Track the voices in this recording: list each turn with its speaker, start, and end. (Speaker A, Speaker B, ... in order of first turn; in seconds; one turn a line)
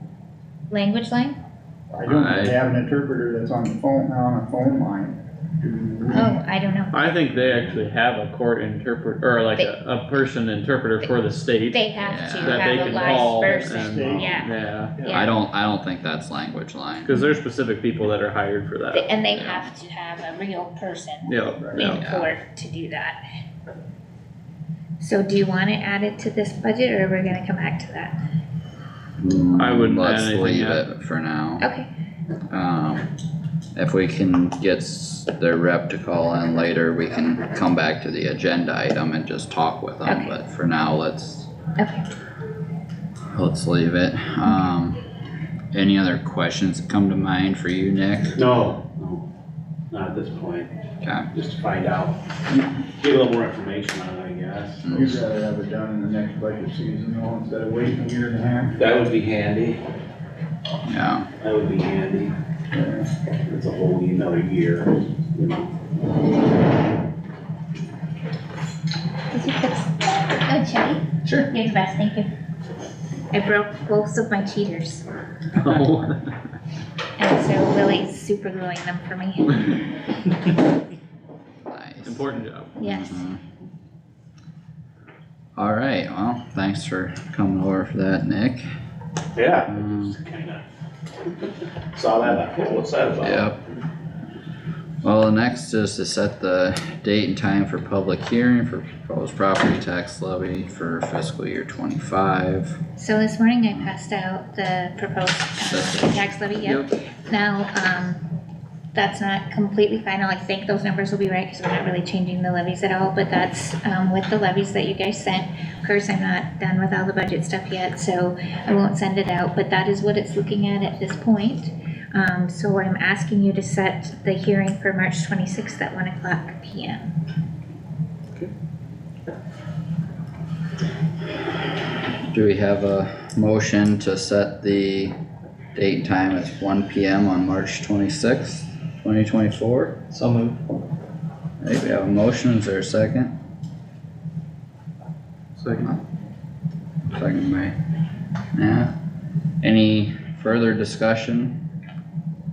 Speaker A: 0.7-1.4
Speaker B: 1.9-6.4
Speaker C: 2.1-2.6
Speaker A: 6.1-7.0
Speaker D: 6.9-15.0
Speaker A: 11.7-15.3
Speaker C: 12.0-12.7
Speaker B: 12.8-14.5
Speaker E: 15.0-15.2
Speaker C: 15.1-17.1
Speaker D: 17.0-19.3
Speaker A: 18.9-23.2
Speaker C: 19.3-19.7
Speaker D: 21.3-22.0
Speaker B: 21.6-22.0
Speaker C: 22.0-22.3
Speaker A: 25.0-28.2
Speaker C: 29.2-31.7
Speaker D: 29.6-30.8
Speaker A: 31.6-31.9
Speaker C: 32.5-33.1
Speaker C: 33.8-41.5
Speaker A: 40.1-40.4
Speaker A: 41.8-42.1
Speaker C: 43.3-45.0
Speaker C: 45.7-48.4
Speaker E: 48.3-49.3
Speaker E: 49.9-50.7
Speaker C: 51.0-51.3
Speaker E: 51.3-52.2
Speaker E: 53.0-55.0
Speaker C: 54.8-55.1
Speaker B: 54.9-58.8
Speaker E: 58.8-59.8
Speaker C: 60.9-61.3
Speaker E: 61.4-62.4
Speaker B: 62.7-63.1
Speaker E: 63.5-65.7
Speaker A: 69.3-72.3
Speaker A: 73.3-75.0
Speaker D: 75.6-76.2
Speaker A: 77.2-79.8
Speaker C: 81.7-83.4
Speaker D: 82.0-82.8
Speaker A: 82.8-83.2
Speaker C: 85.6-88.7
Speaker E: 89.3-90.6
Speaker C: 89.7-90.1
Speaker E: 92.0-93.5
Speaker C: 93.2-93.6
Speaker C: 95.0-102.8
Speaker A: 103.0-108.2
Speaker C: 105.6-106.9
Speaker A: 108.9-127.1
Speaker C: 132.3-135.1
Speaker C: 135.8-140.0
Speaker C: 141.6-143.3
Speaker D: 145.6-145.9
Speaker C: 145.7-146.0
Speaker C: 147.1-147.8
Speaker C: 148.5-148.9
Speaker C: 149.6-151.6